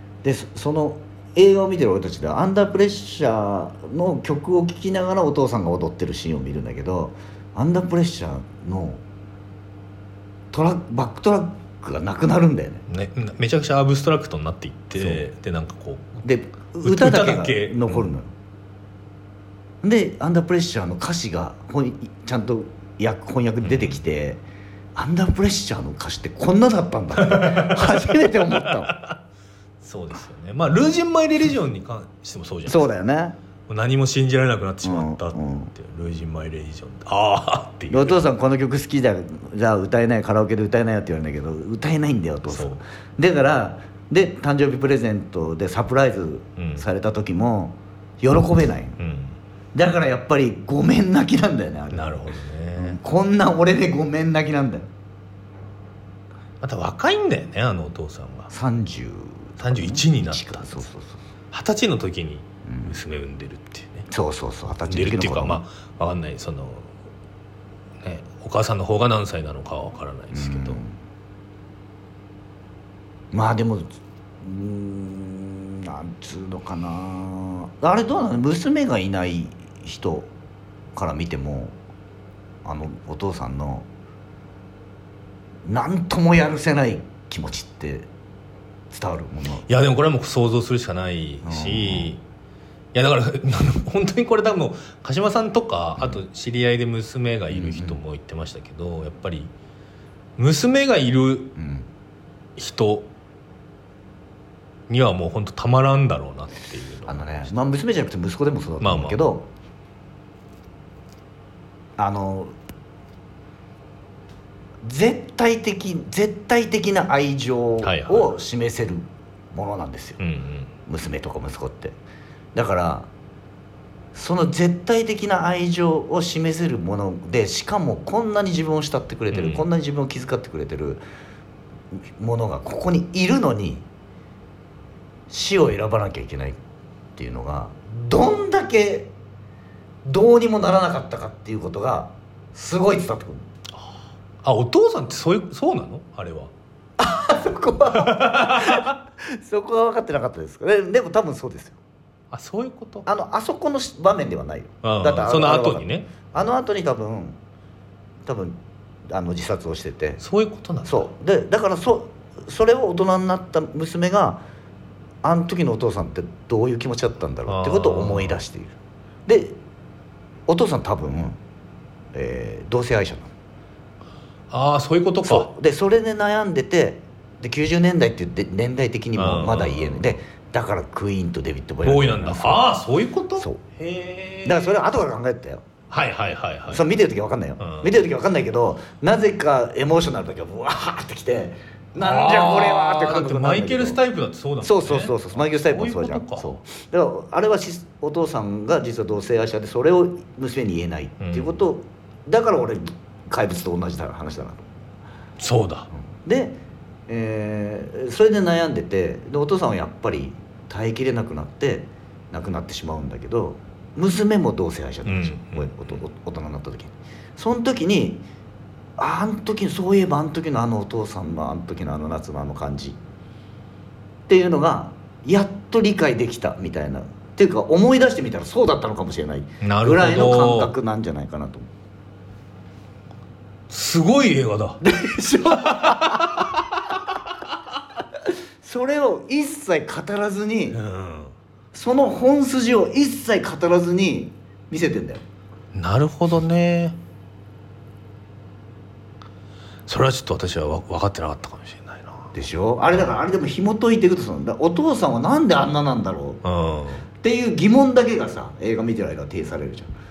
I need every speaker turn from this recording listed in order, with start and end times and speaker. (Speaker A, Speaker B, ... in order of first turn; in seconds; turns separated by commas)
Speaker A: 0.2-9.0, Speaker A: 10.5-12.8, Speaker B: 12.9-16.2, Speaker A: 15.0-15.2, Speaker A: 16.2-18.3, Speaker B: 16.8-18.1, Speaker A: 19.8-24.4, Speaker B: 23.6-24.0, Speaker A: 24.9-28.9, Speaker B: 27.2-28.1, Speaker B: 28.6-29.2, Speaker B: 29.8-32.9, Speaker A: 32.7-33.4, Speaker B: 33.7-38.2, Speaker A: 34.8-35.7, Speaker A: 37.9-49.0, Speaker B: 42.5-42.8, Speaker B: 46.6-46.9, Speaker B: 49.0-49.4, Speaker A: 49.7-52.2, Speaker B: 51.9-53.0, Speaker A: 52.8-54.9, Speaker B: 56.6-58.5, Speaker A: 58.5-61.2, Speaker B: 59.6-60.9, Speaker B: 61.5-64.1, Speaker A: 62.7-62.9, Speaker A: 64.1-65.6, Speaker B: 64.9-66.9, Speaker B: 68.0-70.8, Speaker A: 70.3-71.0, Speaker A: 73.3-80.3, Speaker A: 80.9-81.8, Speaker A: 82.6-83.9, Speaker A: 85.7-88.1, Speaker A: 88.9-89.7, Speaker B: 89.7-92.2, Speaker A: 91.4-92.1, Speaker B: 92.9-99.5, Speaker A: 97.5-98.0, Speaker B: 100.4-101.6, Speaker A: 101.6-101.9, Speaker B: 102.6-103.1, Speaker B: 104.9-107.5, Speaker A: 107.1-109.5, Speaker B: 108.8-109.2, Speaker A: 112.0-112.5, Speaker A: 114.8-120.2, Speaker B: 117.8-118.3, Speaker B: 120.2-120.7, Speaker A: 120.9-122.0, Speaker A: 122.5-123.1, Speaker A: 124.1-131.0, Speaker B: 129.3-129.7, Speaker A: 132.2-133.9, Speaker A: 135.3-136.6, Speaker A: 137.2-139.1, Speaker A: 140.1-143.5, Speaker B: 144.4-146.5, Speaker A: 147.0-151.8, Speaker B: 147.9-148.9, Speaker B: 152.3-153.1, Speaker A: 153.1-157.4, Speaker B: 154.8-156.1, Speaker A: 158.2-160.2, Speaker B: 160.2-161.1, Speaker A: 160.8-164.4, Speaker A: 165.2-169.6, Speaker B: 167.5-168.4, Speaker A: 170.5-171.4, Speaker A: 172.1-173.3, Speaker B: 174.5-175.5, Speaker A: 175.2-182.8, Speaker B: 179.2-180.2, Speaker B: 181.8-184.8, Speaker A: 184.4-185.7, Speaker B: 185.9-186.9, Speaker A: 186.7-194.0, Speaker B: 187.6-187.9, Speaker B: 192.0-196.6, Speaker A: 194.6-204.7, Speaker B: 201.2-201.6, Speaker B: 205.4-205.9, Speaker A: 206.1-218.2, Speaker B: 215.1-216.0, Speaker A: 219.0-223.0, Speaker A: 224.3-231.7, Speaker B: 229.6-230.7, Speaker B: 233.7-234.9, Speaker A: 234.8-236.5, Speaker B: 235.5-236.6, Speaker A: 238.6-240.8, Speaker B: 240.7-241.3, Speaker A: 241.7-245.2, Speaker B: 245.7-247.0, Speaker B: 249.9-252.3, Speaker A: 252.3-256.4, Speaker B: 256.4-257.1, Speaker A: 257.2-259.9